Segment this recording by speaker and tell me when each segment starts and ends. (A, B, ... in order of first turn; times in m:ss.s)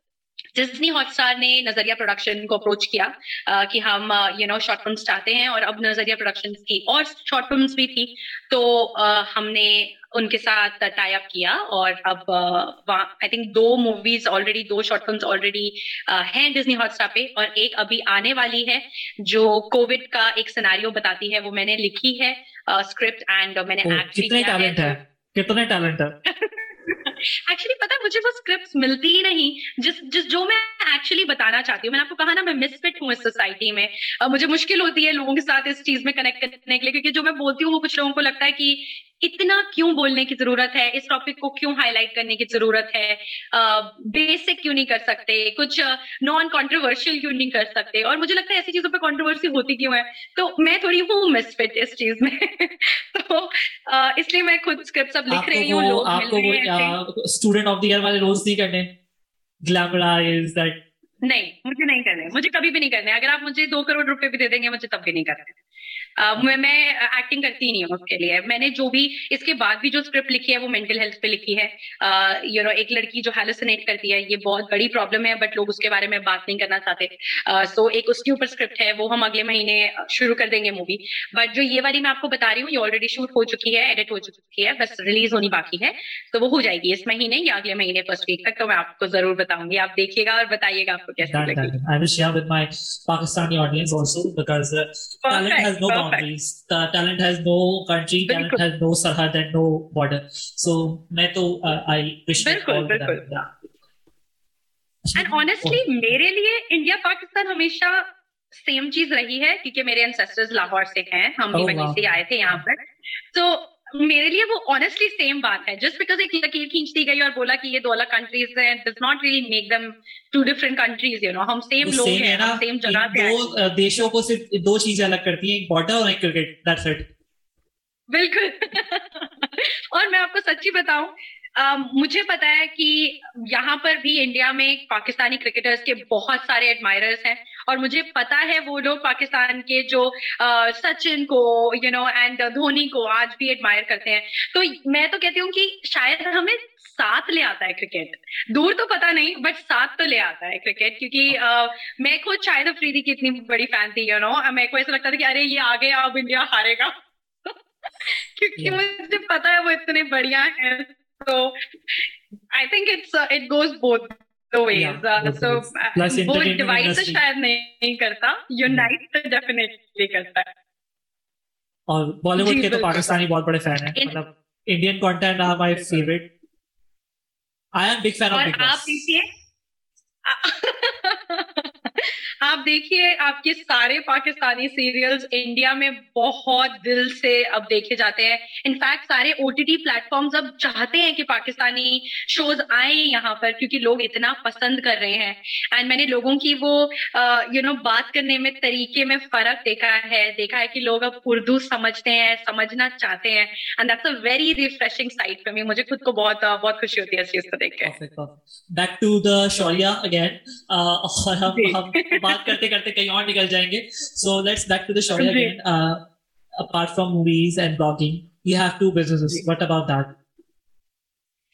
0:00.5-0:25.0 A
0:23.8-0:26.1 B
0:26.3-0:57.0 A
0:55.3-0:58.9 B
0:59.6-1:00.8 B
1:01.2-1:05.6 A
1:06.2-1:31.7 A
1:31.2-1:43.5 B
1:35.2-1:36.3 A
1:38.3-1:38.6 A
1:42.4-1:43.2 A
1:45.0-1:45.9 B
1:45.2-1:52.8 A
1:51.5-1:52.0 B
1:53.3-2:03.6 A
2:01.8-2:07.0 B
2:08.1-2:36.9 A
2:37.4-2:42.0 A
2:38.6-2:38.8 B
2:42.5-2:50.5 A
2:44.7-2:47.2 B
2:51.9-2:56.2 B
2:52.4-2:53.0 A
2:55.7-2:56.1 A
2:57.8-2:59.0 B
2:58.3-2:59.2 A
3:00.3-3:27.9 A
3:27.8-3:36.0 B
3:31.5-3:32.5 A
3:35.2-3:35.5 A
3:36.6-3:40.1 B